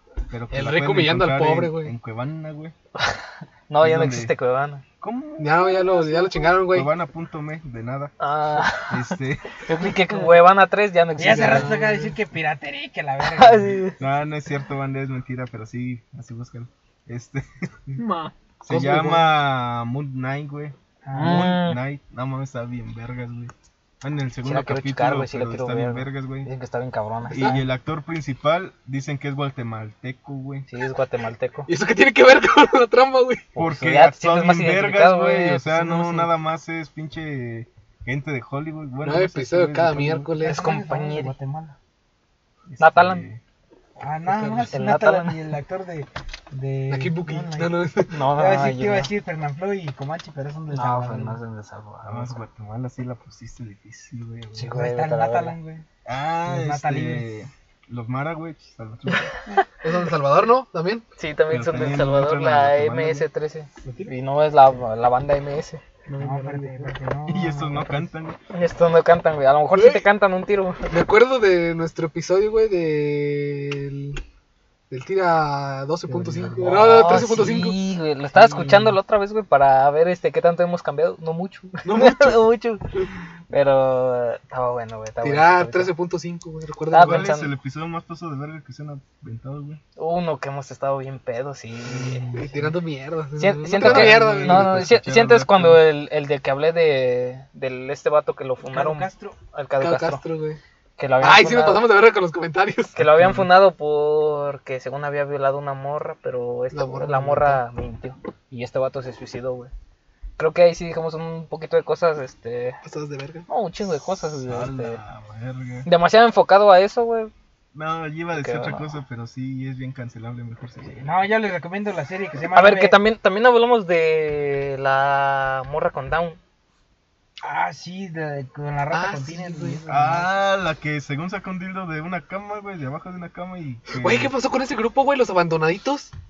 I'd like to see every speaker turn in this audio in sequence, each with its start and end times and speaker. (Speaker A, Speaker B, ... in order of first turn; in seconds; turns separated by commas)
Speaker A: 0.3-2.7, Speaker B: 0.5-1.9, Speaker C: 3.0-4.8, Speaker A: 3.8-4.3, Speaker A: 5.0-8.1, Speaker B: 5.4-6.9, Speaker C: 8.2-9.1, Speaker A: 8.8-9.5, Speaker C: 9.6-11.7, Speaker D: 11.2-13.9, Speaker B: 11.2-12.1, Speaker C: 13.2-14.0, Speaker A: 14.0-17.7, Speaker E: 17.9-18.4, Speaker A: 18.6-26.5, Speaker B: 18.7-19.3, Speaker D: 21.0-21.5, Speaker C: 21.1-21.8, Speaker C: 24.4-27.5, Speaker A: 27.3-30.6, Speaker B: 27.3-27.6, Speaker C: 30.7-31.7, Speaker B: 31.6-33.4, Speaker C: 33.5-36.3, Speaker A: 33.6-40.3, Speaker B: 39.0-40.7, Speaker D: 40.4-41.8, Speaker C: 40.4-41.3, Speaker A: 42.6-43.4, Speaker C: 42.8-43.2, Speaker D: 44.0-51.4, Speaker B: 44.3-44.7, Speaker C: 44.6-45.5, Speaker B: 46.9-48.1, Speaker C: 48.1-49.1, Speaker C: 50.7-52.4, Speaker A: 52.0-54.7, Speaker C: 54.6-55.6, Speaker D: 54.6-55.8, Speaker A: 56.0-59.3, Speaker D: 56.4-57.3, Speaker C: 59.1-59.6, Speaker B: 59.8-61.0, Speaker C: 61.2-65.8, Speaker A: 61.5-63.3, Speaker E: 63.8-64.2, Speaker E: 66.0-66.9, Speaker D: 66.2-68.1, Speaker A: 67.2-68.4, Speaker C: 68.5-70.9, Speaker B: 69.7-70.0, Speaker B: 70.9-74.2, Speaker B: 74.9-77.8, Speaker E: 76.1-77.0, Speaker C: 76.7-82.8, Speaker B: 81.8-82.5, Speaker C: 83.5-85.9, Speaker B: 85.2-87.2, Speaker C: 86.9-87.5, Speaker A: 87.0-89.8, Speaker C: 90.0-92.3, Speaker D: 92.0-92.7, Speaker B: 92.3-94.9, Speaker C: 93.4-100.2, Speaker A: 93.7-95.8, Speaker D: 98.7-99.3, Speaker B: 99.8-100.6, Speaker C: 101.0-101.8, Speaker B: 101.2-103.0, Speaker C: 103.0-109.7, Speaker A: 103.0-103.4, Speaker B: 106.7-107.6, Speaker C: 110.4-112.8, Speaker B: 112.8-113.5, Speaker C: 113.5-115.0, Speaker A: 114.5-115.9, Speaker C: 115.8-117.3, Speaker A: 117.7-121.1, Speaker C: 118.3-118.9, Speaker D: 121.0-123.0, Speaker C: 122.5-126.4, Speaker D: 127.4-130.3, Speaker B: 128.9-129.8, Speaker A: 129.9-134.3, Speaker B: 133.9-136.1